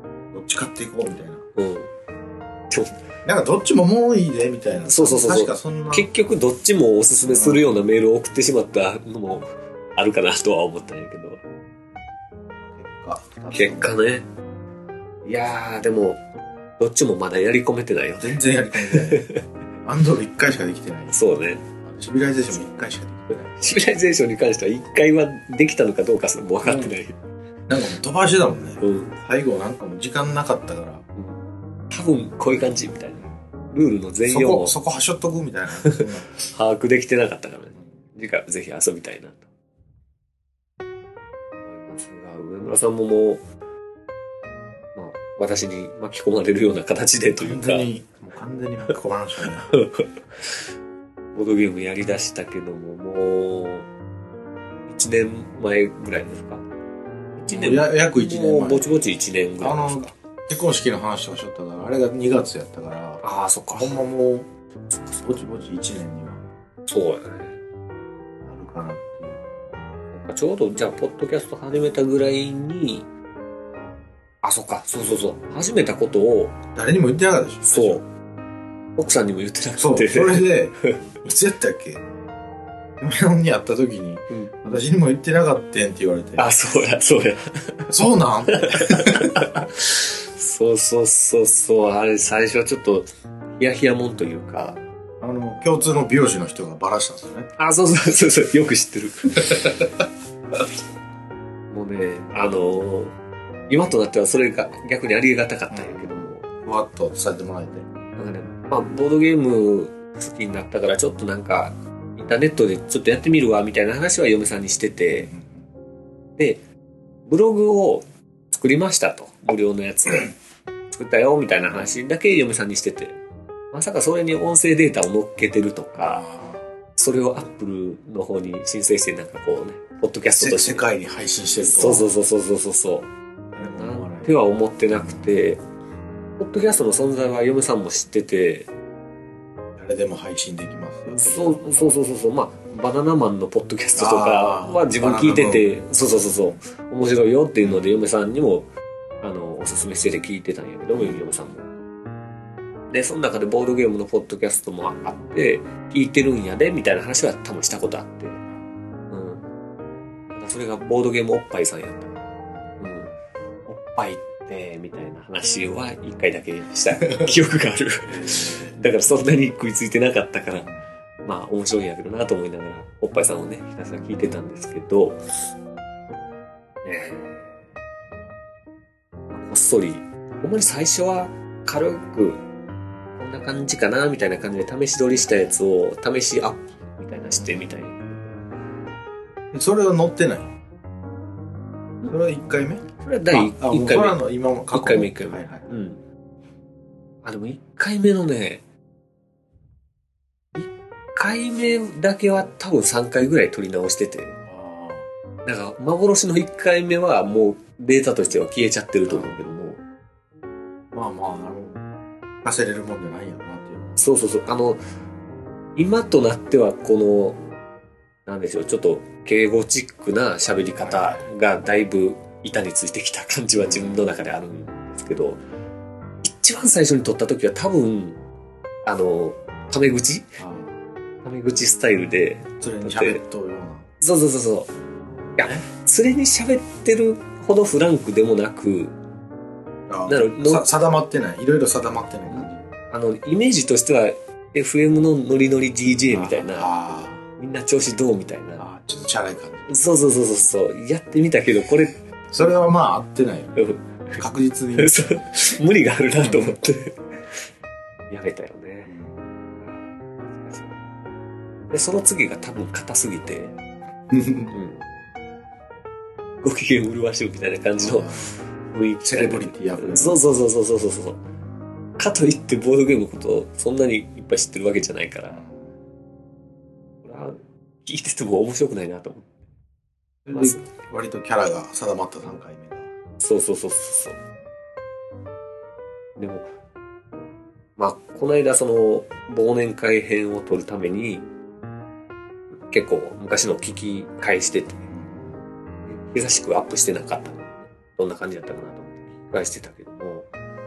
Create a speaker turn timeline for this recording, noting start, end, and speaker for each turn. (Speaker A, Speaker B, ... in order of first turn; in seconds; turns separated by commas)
Speaker A: 0.3-1.4, Speaker B: 1.6-1.9, Speaker B: 2.7-3.0, Speaker A: 3.2-6.1, Speaker B: 4.8-11.4, Speaker A: 7.3-7.7, Speaker A: 12.7-13.9, Speaker B: 13.5-14.3, Speaker B: 15.2-16.2, Speaker B: 16.8-19.4, Speaker A: 18.2-19.2, Speaker A: 19.9-21.2, Speaker B: 21.1-21.6, Speaker A: 21.8-23.6, Speaker B: 23.6-27.2, Speaker A: 26.6-27.0, Speaker A: 27.7-31.0, Speaker B: 28.8-29.1, Speaker B: 31.2-34.8, Speaker A: 34.2-36.3, Speaker B: 35.9-39.5, Speaker B: 41.6-43.4, Speaker B: 45.0-47.9, Speaker A: 47.4-49.7, Speaker B: 49.7-50.5, Speaker B: 51.3-53.9, Speaker B: 54.9-56.7, Speaker B: 57.4-60.1, Speaker A: 57.5-59.0, Speaker A: 59.6-63.2, Speaker B: 63.2-64.0, Speaker A: 63.7-64.5, Speaker B: 64.9-65.4, Speaker A: 65.2-66.4, Speaker B: 66.9-67.6, Speaker A: 68.4-69.4, Speaker B: 70.1-73.1, Speaker B: 74.4-76.6, Speaker A: 76.8-78.0, Speaker B: 77.7-78.0, Speaker B: 79.0-81.1, Speaker A: 79.8-82.0, Speaker A: 83.0-86.5, Speaker B: 84.3-84.8, Speaker B: 86.4-87.9, Speaker A: 87.9-89.5, Speaker B: 88.5-94.8, Speaker A: 95.2-97.5, Speaker B: 97.6-99.8, Speaker B: 101.7-103.2, Speaker B: 103.7-106.5, Speaker A: 105.7-107.9, Speaker B: 108.2-115.3, Speaker A: 115.1-115.7, Speaker B: 116.4-116.6, Speaker B: 117.3-120.3, Speaker B: 120.9-123.2, Speaker B: 123.7-126.2, Speaker A: 126.0-126.6, Speaker B: 127.0-130.9, Speaker A: 130.4-132.1, Speaker B: 131.6-133.1, Speaker A: 133.5-134.3, Speaker B: 133.6-135.6, Speaker A: 134.9-135.3, Speaker B: 136.4-138.7, Speaker A: 139.8-141.9, Speaker B: 141.1-148.7, Speaker A: 144.0-145.7, Speaker A: 147.6-147.9, Speaker B: 149.2-151.7, Speaker A: 150.9-151.2, Speaker B: 152.9-158.4, Speaker B: 159.1-159.4, Speaker B: 160.3-163.1, Speaker A: 162.5-162.8, Speaker B: 163.7-170.7, Speaker A: 168.1-168.8, Speaker B: 171.2-175.2, Speaker B: 176.8-177.6, Speaker B: 179.3-182.4, Speaker B: 183.2-188.4, Speaker A: 185.1-185.6, Speaker A: 187.3-187.6, Speaker A: 189.5-190.5, Speaker A: 192.1-195.7, Speaker B: 192.9-196.0, Speaker B: 197.2-198.6, Speaker B: 200.6-204.4, Speaker A: 204.5-205.1, Speaker B: 205.4-209.8, Speaker A: 209.1-209.4, Speaker A: 210.9-211.8, Speaker A: 212.4-214.0, Speaker B: 214.0-214.8, Speaker B: 215.8-217.4, Speaker B: 218.3-225.4, Speaker A: 220.8-221.3, Speaker A: 223.6-224.1, Speaker B: 226.2-228.2, Speaker B: 228.8-230.4, Speaker A: 230.4-230.8, Speaker B: 231.2-233.2, Speaker A: 232.6-233.9, Speaker B: 234.0-234.7, Speaker A: 235.3-235.7, Speaker B: 235.4-239.0, Speaker A: 239.9-242.7, Speaker B: 240.1-240.7, Speaker B: 242.3-246.7, Speaker A: 246.1-247.2, Speaker B: 247.4-248.7, Speaker A: 248.6-249.7, Speaker B: 249.7-252.5, Speaker A: 252.3-253.5, Speaker B: 253.6-254.2, Speaker A: 254.2-255.1, Speaker B: 254.8-257.4, Speaker A: 256.2-256.6, Speaker B: 258.1-259.0, Speaker A: 258.9-259.2, Speaker B: 259.6-260.8, Speaker B: 261.7-263.6, Speaker A: 264.1-264.6, Speaker B: 264.5-264.9, Speaker B: 266.4-271.2, Speaker A: 267.8-268.3, Speaker A: 269.0-270.2, Speaker B: 272.0-275.4, Speaker A: 275.3-275.8, Speaker B: 277.0-279.3, Speaker A: 280.3-282.9, Speaker B: 280.3-280.6, Speaker B: 283.2-284.2, Speaker B: 286.2-286.5, Speaker B: 287.8-291.3, Speaker B: 292.7-294.8, Speaker A: 294.9-295.4, Speaker B: 295.9-300.3